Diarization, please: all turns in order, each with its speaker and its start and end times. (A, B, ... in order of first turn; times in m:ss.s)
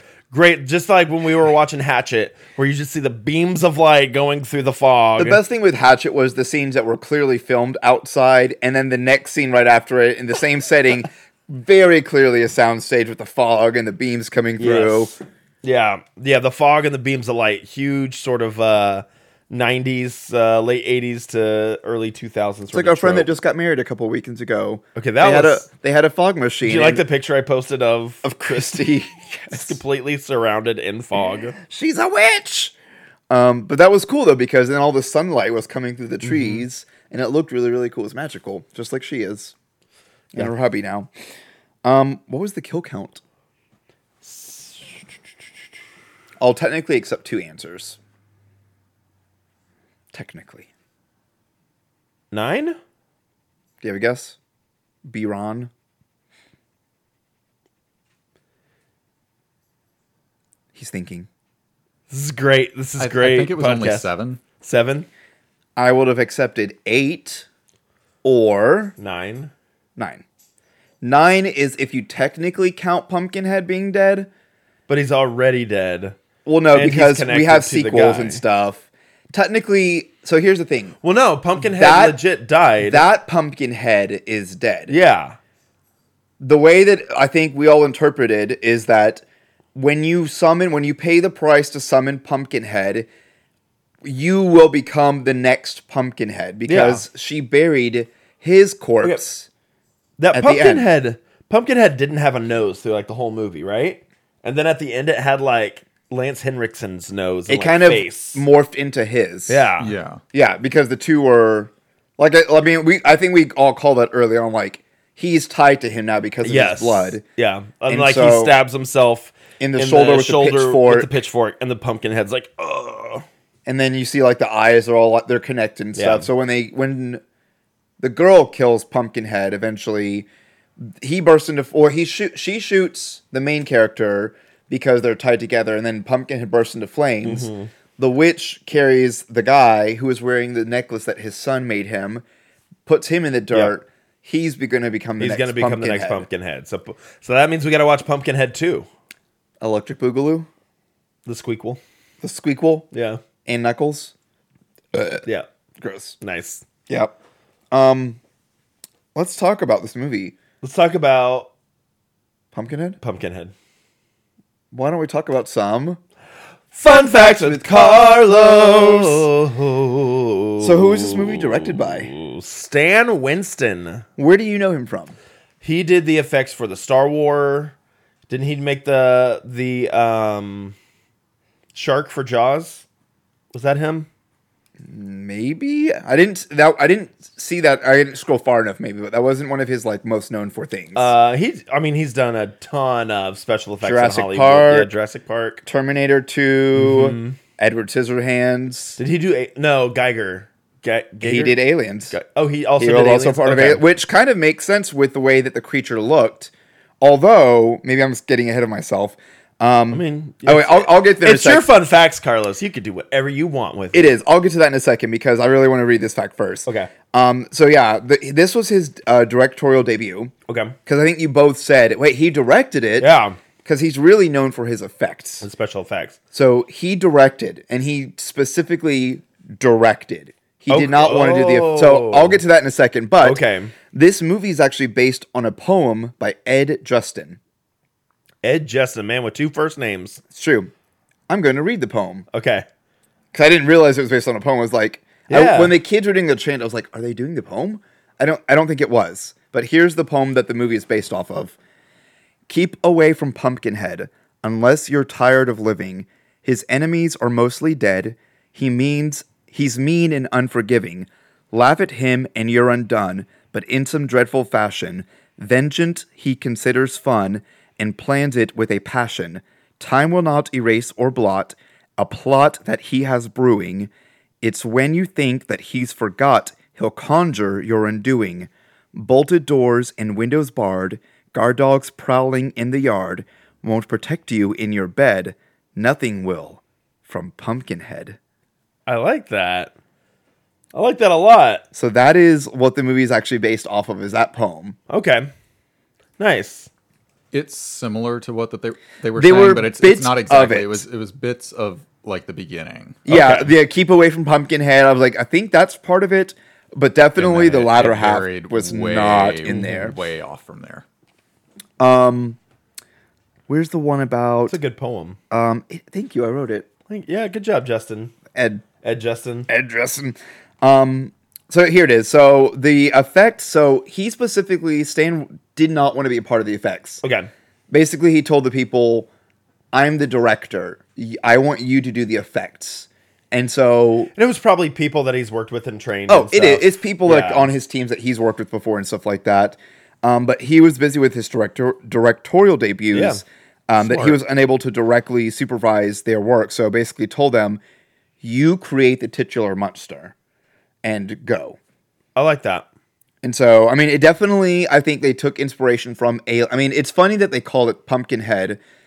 0:00.3-0:05.4 A
0:05.2-0:15.2 B
0:14.6-0:23.3 A
0:22.7-0:27.0 B
0:25.0-0:25.6 A
0:26.6-0:28.8 A
0:28.2-0:29.8 B
0:29.5-0:31.6 A
0:31.6-0:32.7 B
0:33.3-0:39.5 B
0:36.2-0:36.6 A
0:40.3-0:41.1 B
0:41.8-0:43.2 B
0:44.2-0:45.1 A
0:46.4-0:48.0 B
0:50.1-0:50.7 B
0:52.3-0:52.8 A
0:53.8-0:54.4 B
0:55.0-0:55.7 B
1:00.7-1:01.3 B
1:02.1-1:05.1 A
1:03.0-1:04.4 C
1:05.8-1:07.4 B
1:08.2-1:09.0 B
1:09.0-1:09.5 A
1:10.0-1:10.2 B
1:11.0-1:14.3 B
1:14.9-1:16.2 A
1:16.4-1:21.0 B
1:16.7-1:18.4 A
1:21.0-1:23.0 A
1:21.6-1:22.2 B
1:22.8-1:24.9 B
1:24.9-1:25.4 A
1:26.4-1:29.2 B
1:29.7-1:33.1 B
1:34.0-1:39.5 B
1:36.6-1:37.0 A
1:40.2-1:48.4 A
1:40.3-1:40.9 B
1:47.5-1:49.6 B
1:49.5-1:49.9 A
1:49.8-1:50.2 C
1:50.3-1:57.2 B
1:56.4-2:03.2 A
1:57.9-1:58.6 B
1:59.6-2:01.1 B
2:03.6-2:07.2 B
2:06.0-2:06.3 A
2:08.0-2:10.3 B
2:10.8-2:22.2 B
2:17.2-2:17.7 A
2:22.8-2:26.3 B
2:25.2-2:28.9 A
2:29.6-2:30.5 B
2:31.2-2:31.8 A
2:32.2-2:32.9 B
2:32.9-2:33.2 A
2:33.4-2:34.1 B
2:34.9-2:35.2 B
2:35.8-2:36.2 B
2:36.2-2:36.6 A
2:36.9-2:37.1 B
2:37.7-2:38.2 B
2:39.1-2:40.4 B
2:40.6-2:41.5 A
2:42.5-2:43.0 B
2:43.0-2:43.5 A
2:44.7-2:46.0 B
2:46.7-2:54.0 A
2:46.9-2:49.3 B
2:50.6-2:52.1 B
2:54.2-2:55.2 B
2:55.6-2:57.7 A
2:58.3-3:00.7 A
3:01.7-3:02.8 A
3:03.5-3:04.1 A
3:04.8-3:11.1 B
3:10.9-3:15.6 A
3:13.8-3:14.9 B
3:15.6-3:19.0 B
3:16.7-3:17.4 A
3:19.0-3:23.8 A
3:21.2-3:22.1 B
3:22.8-3:31.7 B
3:29.9-3:34.1 A
3:33.9-3:40.3 B
3:36.6-3:36.9 A
3:40.5-3:40.8 A
3:40.8-3:45.4 B
3:43.0-3:43.4 A
3:45.4-3:46.2 A
3:46.3-3:57.4 B
3:50.7-3:52.4 A
3:53.2-3:53.7 A
3:58.4-4:00.2 A
4:00.3-4:00.7 B
4:01.3-4:02.2 B
4:02.3-4:02.6 A
4:03.3-4:11.6 B
4:05.3-4:05.8 A
4:12.5-4:33.9 B
4:34.4-4:48.2 B
4:48.9-4:49.7 A
4:50.7-4:51.6 A
4:51.7-4:54.8 B
4:54.9-4:55.3 A
4:56.2-4:56.7 A
4:57.3-5:03.4 C
4:59.2-5:00.8 B
5:03.0-5:10.0 B
5:03.1-5:03.5 A
5:07.2-5:10.8 C
5:11.8-5:12.4 B
5:13.5-5:14.6 B
5:14.5-5:15.2 A
5:15.3-5:16.7 B
5:16.9-5:18.1 A
5:18.3-5:18.6 B
5:18.8-5:19.5 A
5:19.5-5:27.0 B
5:27.0-5:27.3 A
5:27.7-5:29.1 B
5:29.7-5:34.1 B
5:34.1-5:37.5 A
5:36.1-5:47.6 B
5:42.9-5:43.2 A
5:43.8-5:44.2 A
5:48.2-5:50.1 B
5:50.8-5:51.6 B
5:52.2-5:52.6 A
5:53.2-5:58.6 B